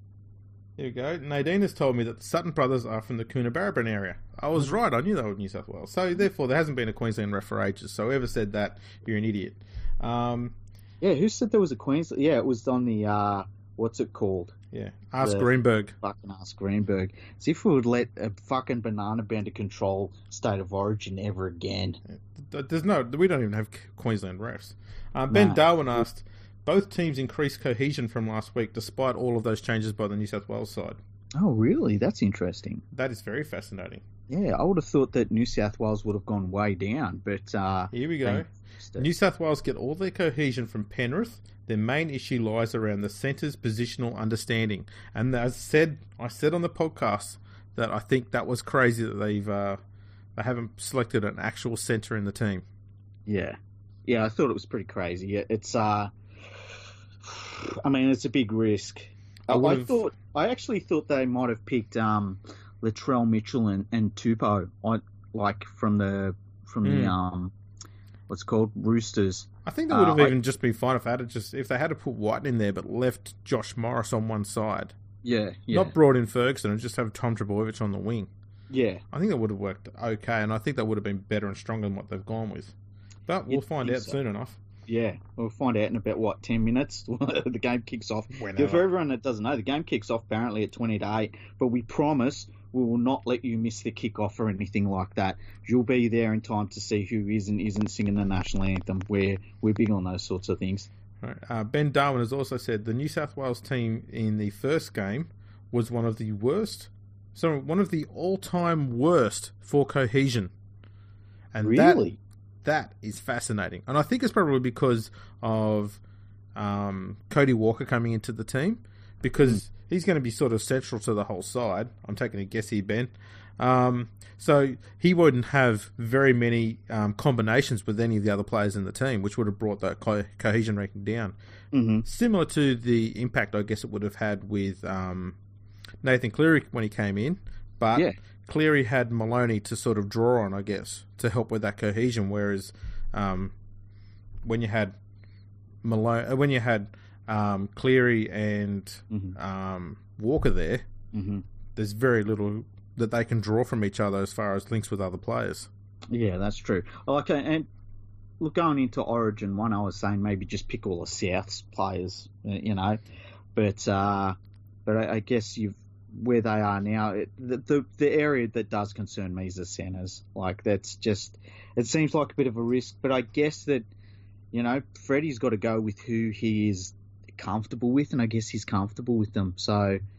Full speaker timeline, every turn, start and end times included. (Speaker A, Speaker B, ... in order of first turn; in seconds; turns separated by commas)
Speaker A: 0.8-10.6, Speaker B: 11.0-14.5, Speaker A: 14.7-15.9, Speaker B: 15.2-15.5, Speaker B: 16.0-22.0, Speaker A: 22.1-31.0, Speaker B: 25.3-26.0, Speaker B: 31.4-32.8, Speaker A: 32.9-34.0, Speaker B: 34.3-39.1, Speaker A: 37.9-49.8, Speaker A: 50.4-52.6, Speaker B: 53.3-56.1, Speaker B: 57.2-67.5, Speaker A: 59.5-60.0, Speaker A: 66.8-67.1, Speaker B: 68.3-70.3, Speaker A: 69.6-74.9, Speaker B: 75.2-75.9, Speaker A: 75.7-78.3, Speaker B: 78.7-79.0, Speaker A: 79.1-82.7, Speaker A: 83.3-84.6, Speaker B: 83.5-84.2, Speaker B: 84.9-100.9, Speaker A: 88.3-88.8, Speaker A: 101.2-110.5, Speaker A: 111.5-112.0, Speaker B: 111.6-112.2, Speaker A: 112.6-116.0, Speaker A: 116.5-131.3, Speaker B: 131.7-132.1, Speaker A: 132.1-135.4, Speaker A: 136.0-143.5, Speaker A: 144.4-144.9, Speaker A: 145.8-150.8, Speaker B: 149.1-149.3, Speaker B: 151.1-151.4, Speaker A: 151.8-155.7, Speaker B: 156.1-157.7, Speaker B: 158.4-163.0, Speaker B: 163.5-173.9, Speaker B: 174.5-180.0